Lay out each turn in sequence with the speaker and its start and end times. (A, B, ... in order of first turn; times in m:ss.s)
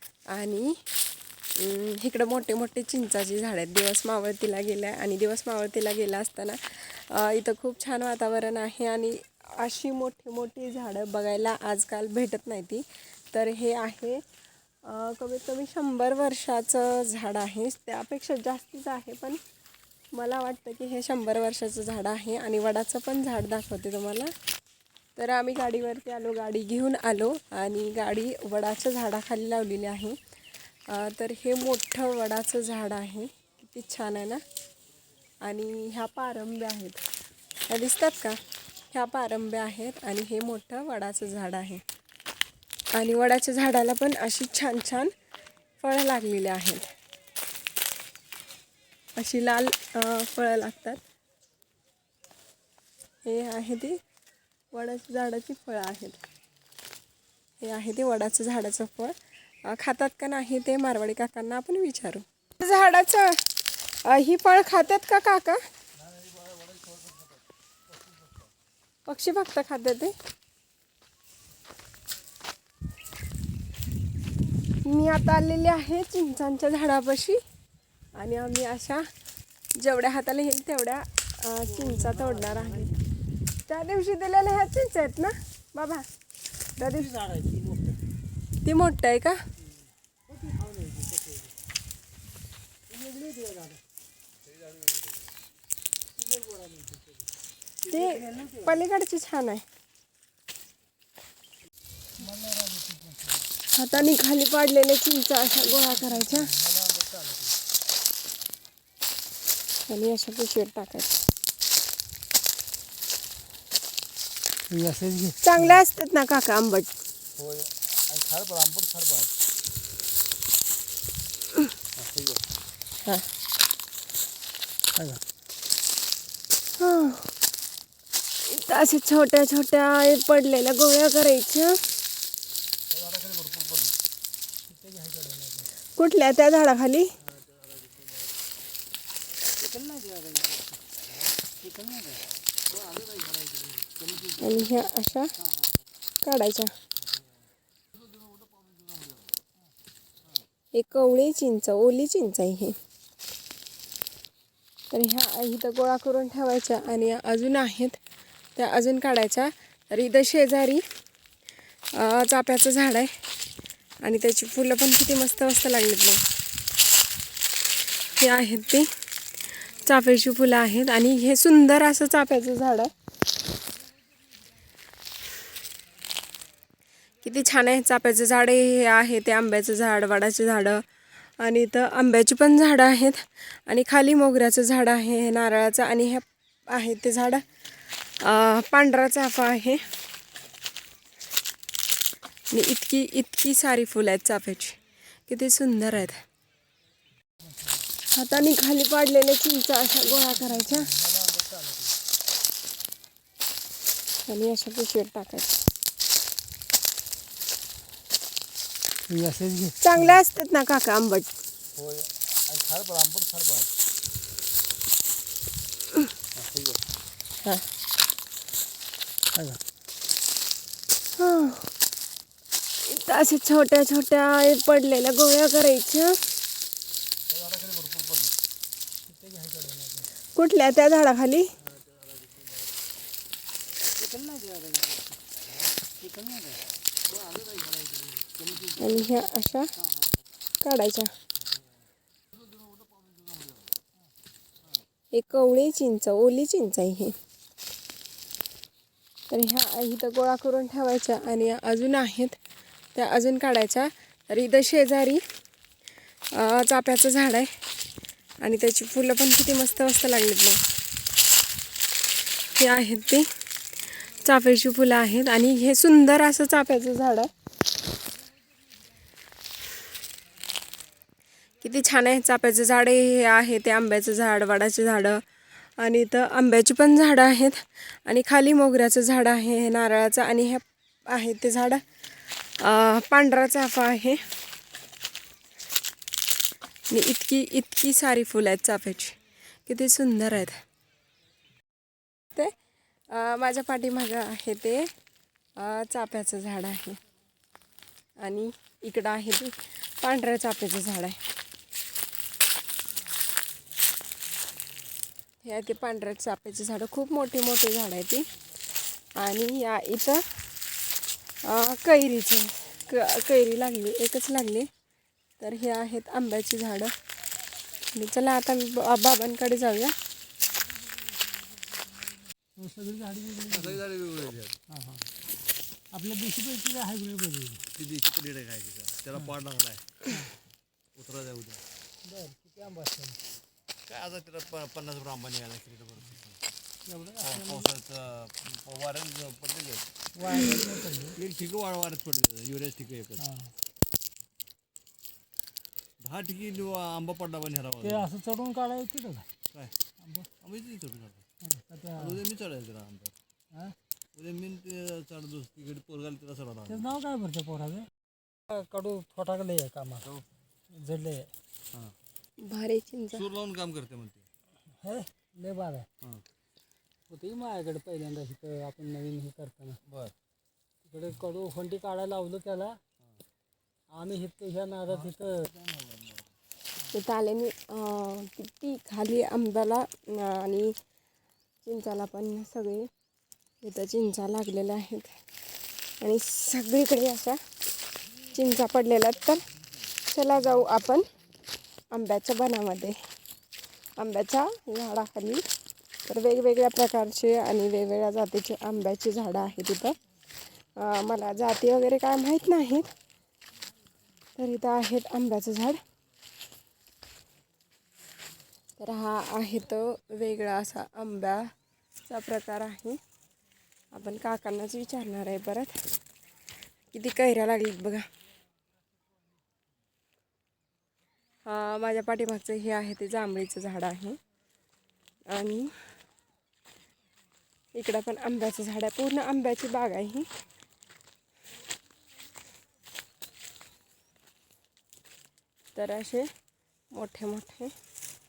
0:00.3-0:00.8 A
0:01.6-0:14.2 A
0:14.8-0:19.4 A
0:20.1-0:24.3 A
0:25.2-0:30.2 A
0:30.9-0:34.4 A
0:35.4-0:37.0 A
0:37.7-0:38.4 A
0:38.9-0:41.8 A
0:42.9-0:45.1 A
0:45.8-0:46.9 A
0:49.2-0:51.0 A
0:53.2-0:54.0 A
0:54.7-0:56.2 A
0:57.6-1:03.4 A
1:04.0-1:05.6 A
1:06.0-1:07.3 B
1:09.1-1:10.2 A
1:14.8-1:17.4 A
1:18.2-1:19.0 A
1:19.8-1:22.9 A
1:21.7-1:23.1 C
1:23.7-1:26.0 A
1:26.8-1:28.0 C
1:26.8-1:27.1 A
1:28.6-1:29.4 A
1:29.7-1:31.5 C
1:32.9-1:33.8 C
1:34.5-1:35.1 B
1:36.1-1:37.3 C
1:37.8-1:38.8 C
1:37.9-1:39.6 A
1:42.2-1:43.5 C
1:43.7-1:46.5 A
1:45.8-1:47.5 C
1:49.9-1:51.2 A
1:54.7-1:55.8 C
1:55.4-1:56.9 A
1:57.4-1:59.3 B
2:02.0-2:02.4 B
2:05.0-2:05.2 C
2:06.8-2:07.3 A
2:08.5-2:11.8 A
2:12.9-2:14.0 B
2:14.7-2:15.7 C
2:16.0-2:17.1 A
2:17.3-2:18.2 B
2:19.6-2:20.8 C
2:21.6-2:22.2 C
2:22.7-2:24.8 B
2:24.4-2:25.3 A
2:26.2-2:26.7 A
2:30.7-2:32.8 A
2:34.9-2:38.0 A
2:38.6-2:40.8 A
2:42.0-2:43.1 A
2:44.0-2:46.2 A
2:48.2-2:48.9 A
2:49.8-2:52.9 A
2:57.2-3:00.8 A
3:01.4-3:07.4 A
3:08.2-3:09.8 A
3:12.5-3:16.2 A
3:18.1-3:20.9 A
3:20.7-3:21.9 C
3:24.3-3:25.6 A
3:29.1-3:30.2 C
3:29.8-3:31.3 A
3:31.8-3:33.7 B
3:36.4-3:36.8 B
3:39.3-3:39.6 C
3:41.2-3:41.7 A
3:42.8-3:46.2 A
3:47.3-3:48.3 B
3:49.1-3:50.1 C
3:50.4-3:51.5 A
3:51.6-3:52.6 B
3:54.0-3:55.2 C
3:56.0-3:56.6 C
3:57.1-3:59.1 B
3:58.8-3:59.7 A
3:59.8-4:00.1 C
4:00.6-4:01.1 A
4:02.8-4:03.5 B
4:05.1-4:07.2 A
4:09.3-4:12.4 A
4:13.0-4:15.2 A
4:16.3-4:17.5 A
4:18.4-4:20.6 A
4:22.6-4:23.3 A
4:24.2-4:27.3 A
4:31.6-4:35.2 A
4:35.8-4:41.8 A
4:42.6-4:44.2 A
4:46.9-4:50.6 A
4:53.1-4:54.9 A
4:55.6-4:57.0 A
4:58.2-5:01.2 A
5:05.4-5:08.3 A
5:09.2-5:10.2 A
5:11.4-5:14.7 A
5:15.4-5:16.9 A
5:17.9-5:20.0 A
5:22.6-5:23.8 C
5:23.5-5:24.6 B
5:24.7-5:25.1 C
5:25.9-5:27.6 C
5:27.8-5:30.0 B
5:31.0-5:31.6 B
5:32.0-5:33.2 C
5:33.9-5:36.4 B
5:36.9-5:37.7 C
5:37.2-5:39.9 B
5:40.2-5:41.2 C
5:41.2-5:43.2 B
5:43.2-5:43.5 C
5:46.0-5:48.1 B
5:47.8-5:49.3 C
5:50.0-5:50.3 C
5:50.4-5:51.2 B
5:51.5-5:52.2 C
5:52.0-5:53.1 B
5:54.2-5:57.0 B
5:56.7-5:57.9 C
5:58.5-6:00.1 C
6:00.7-6:01.3 C
6:02.4-6:03.2 A
6:03.1-6:04.3 B
6:04.8-6:05.9 C
6:07.1-6:09.8 C
6:09.9-6:10.1 B
6:10.9-6:12.8 C
6:13.9-6:15.5 C
6:14.9-6:16.2 B
6:16.9-6:20.8 A
6:21.6-6:22.9 A
6:23.6-6:25.1 A
6:26.0-6:27.4 A
6:28.3-6:29.4 A
6:30.1-6:31.1 A
6:31.9-6:33.0 A
6:34.0-6:35.4 A
6:36.1-6:40.0 A
6:40.8-6:42.9 A
6:44.4-6:45.8 A
6:48.8-6:51.5 A
6:52.1-6:53.0 A
6:53.9-6:55.8 A
6:56.9-6:58.1 A
7:01.4-7:04.2 A
7:05.3-7:05.7 A
7:07.7-7:10.3 A
7:15.8-7:16.3 A
7:16.9-7:17.7 A